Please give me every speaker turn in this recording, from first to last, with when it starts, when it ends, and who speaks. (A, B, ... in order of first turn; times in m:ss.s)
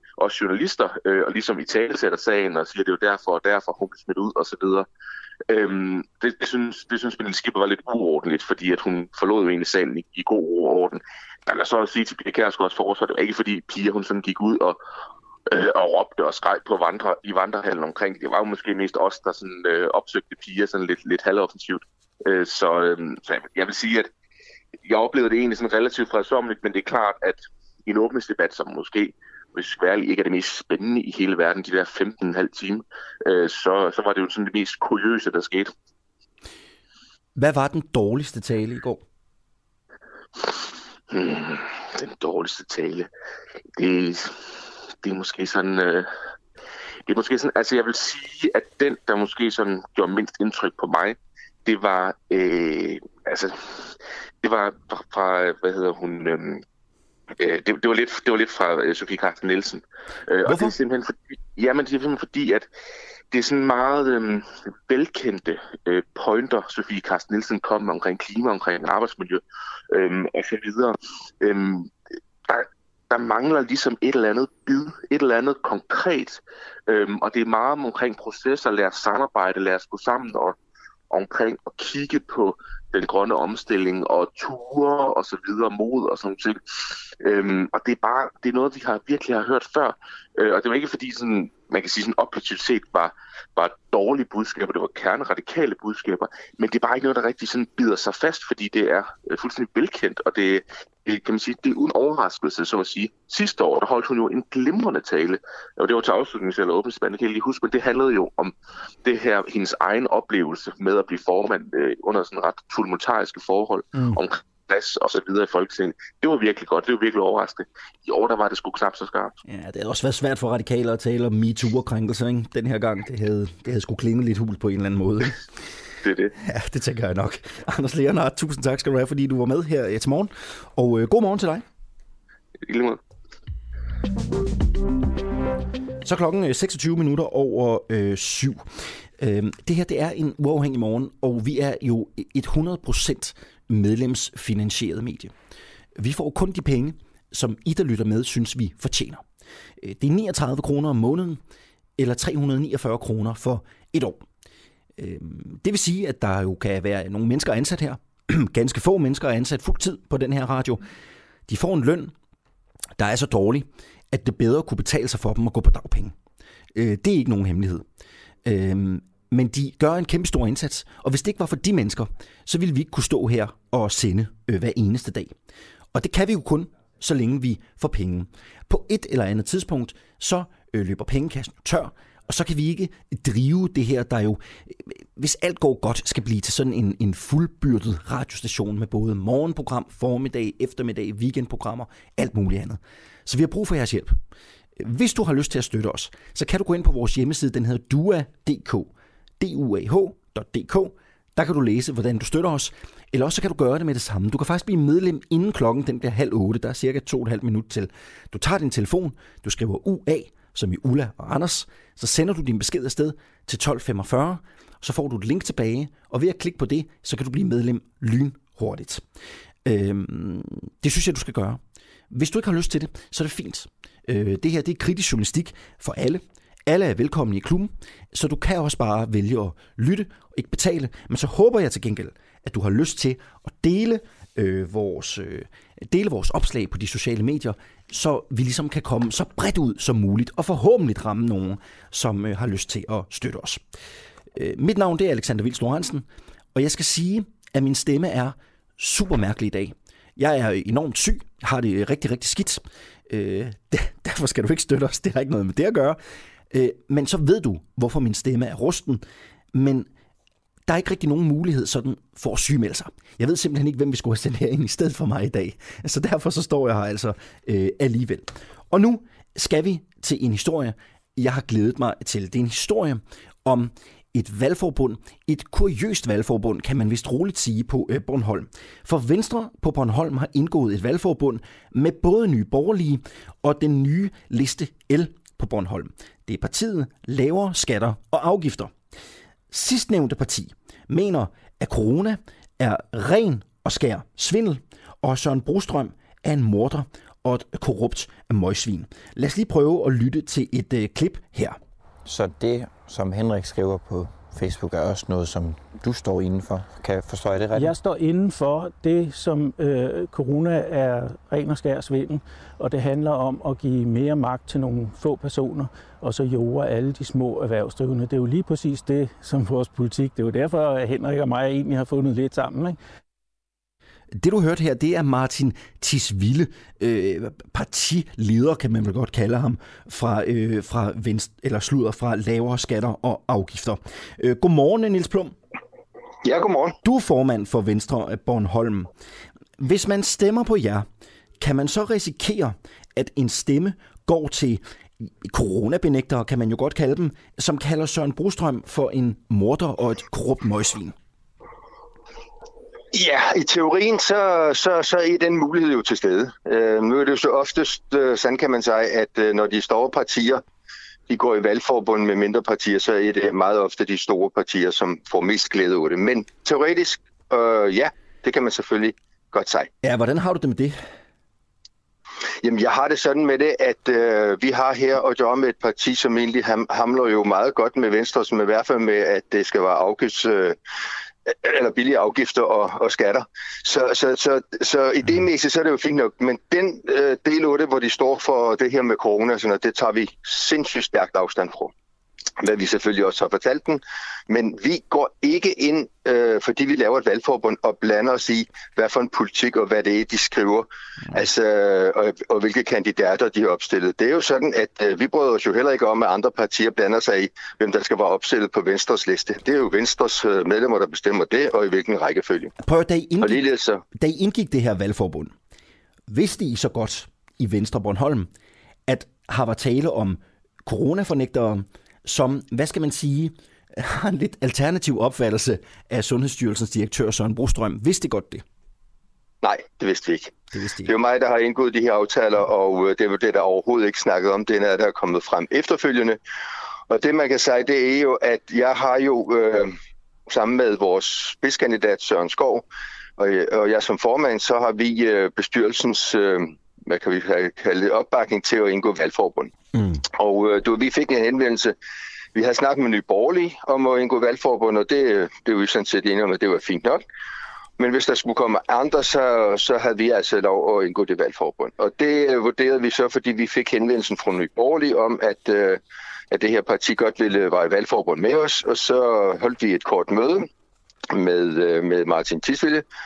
0:00.2-0:04.9 A
0:05.5-0:14.8 A
0:15.5-0:24.1 A
0:24.8-0:35.7 A
0:37.4-0:39.0 B
0:41.1-0:43.1 A
0:43.8-0:44.5 A
0:45.0-0:46.1 A
0:47.1-0:56.6 A
0:57.4-1:02.7 A
1:00.5-1:00.7 B
1:03.3-1:11.9 A
1:12.5-1:20.6 A
1:21.1-1:59.4 A
1:59.5-2:05.4 B
2:06.0-2:06.3 A
2:06.4-2:11.6 B
2:12.6-2:13.0 A
2:16.0-2:18.6 B
2:19.2-2:25.3 B
2:26.0-2:29.2 B
2:29.8-2:31.4 B
2:32.0-2:34.2 B
2:35.0-2:40.8 B
2:41.5-2:42.1 B
2:43.0-2:46.1 B
2:46.7-2:47.8 B
2:48.4-2:55.3 B
2:55.9-3:14.2 B
3:14.8-3:39.0 B
3:39.6-4:03.6 B
4:04.3-4:16.0 B
4:16.5-4:19.9 B
4:20.7-4:48.7 B
4:49.5-5:01.6 B
5:02.0-5:07.8 C
5:07.6-5:22.8 D
5:24.1-5:35.4 B
5:36.2-5:36.8 E
5:36.8-5:38.9 B
5:39.6-5:40.9 B
5:41.4-5:50.9 B
5:52.9-6:00.4 E
6:01.1-6:09.7 E
6:09.8-6:10.8 B
6:12.4-6:20.6 E
6:21.3-6:31.7 E
6:32.4-6:52.5 E
6:52.6-6:55.3 B
6:53.2-6:53.8 E
6:56.1-6:58.3 B
6:58.9-7:08.4 B
7:09.4-7:16.2 E
7:10.5-7:10.9 B
7:16.9-7:19.8 E
7:20.3-7:22.6 E
7:23.2-7:29.5 E
7:30.2-7:31.8 E
7:32.4-7:37.0 E
7:37.8-7:50.5 E
7:51.1-7:52.8 E